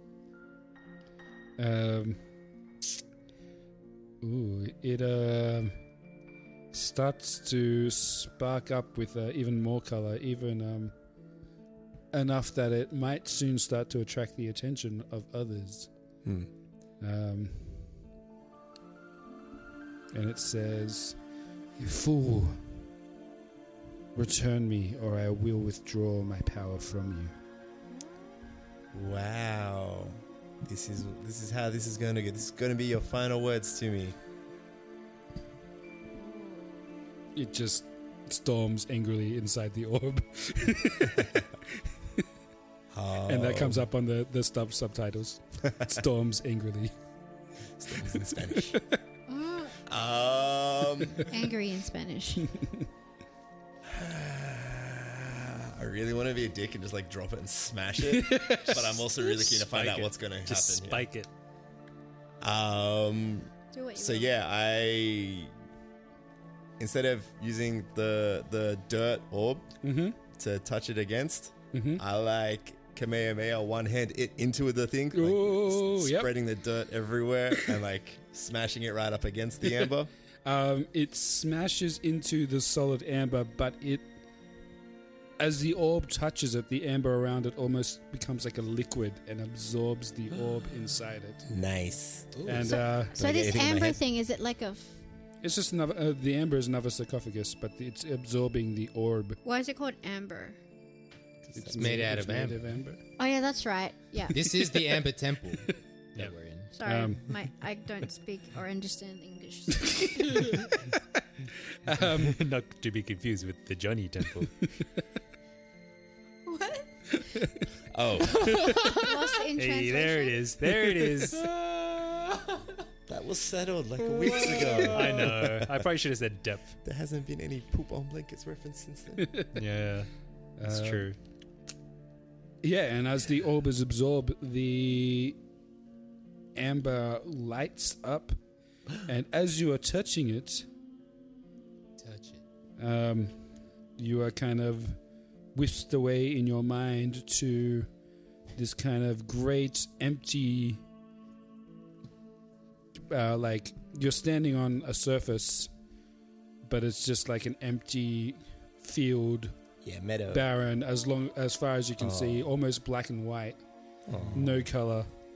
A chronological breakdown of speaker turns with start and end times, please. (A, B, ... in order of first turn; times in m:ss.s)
0:01.6-0:02.2 A
0:04.2-0:05.8 A
0:06.7-0:10.9 A
0:12.1-0:15.9 A
0:17.0-0:18.0 A
0:20.1-0:21.2 A
0:21.8-0:22.8 A
0:24.1-0:27.4 A
0:28.9-0:34.2 B
0:36.2-0:36.9 C
0:37.4-0:41.3 A
0:41.1-0:41.4 B
0:42.9-0:43.9 B
0:43.3-0:46.9 A
0:47.8-0:48.8 B
0:48.0-0:49.0 A
0:49.3-0:49.8 C
0:49.9-0:51.3 B
0:51.2-0:52.5 C
0:53.9-1:01.1 B
0:58.0-0:59.0 A
0:59.2-1:01.3 D
1:02.4-1:05.5 B
1:03.7-1:04.3 C
1:06.8-1:09.7 B
1:09.8-1:10.2 A
1:10.3-1:20.1 B
1:11.7-1:12.0 A
1:15.1-1:16.3 A
1:20.4-1:24.1 A
1:25.4-1:31.4 A
1:31.5-1:32.4 B
1:32.3-1:32.8 E
1:32.4-1:33.2 A
1:32.7-1:35.0 C
1:33.2-1:34.0 B
1:35.4-1:39.4 A
1:39.4-1:40.6 C
1:41.5-1:43.0 A
1:41.7-1:42.6 E
1:43.2-1:44.7 C
1:44.3-1:46.7 E
1:46.7-1:50.6 C
1:46.8-1:47.3 A
1:51.9-1:52.4 A
1:52.1-1:54.6 D
1:56.4-1:56.9 C
1:57.9-1:58.8 B
1:58.5-1:58.9 E
1:58.9-2:00.5 C
1:59.6-2:01.4 D
2:01.4-2:02.5 E
2:03.1-2:05.8 B
2:04.4-2:04.9 E
2:04.9-2:06.8 D
2:06.8-2:09.4 B
2:09.2-2:09.5 A
2:09.6-2:10.1 D
2:10.6-2:11.1 A
2:10.6-2:11.2 D
2:12.6-2:15.4 A
2:16.6-2:18.4 A
2:19.0-2:20.6 A
2:22.0-2:22.4 E
2:22.8-2:23.4 A
2:24.0-2:25.0 A
2:25.5-2:27.9 A
2:28.6-2:30.8 A
2:33.1-2:35.7 A
2:36.6-2:39.5 A
2:39.8-2:40.4 B
2:40.3-2:43.6 A
2:42.0-2:42.5 B
2:44.1-2:44.7 B
2:44.3-2:45.1 A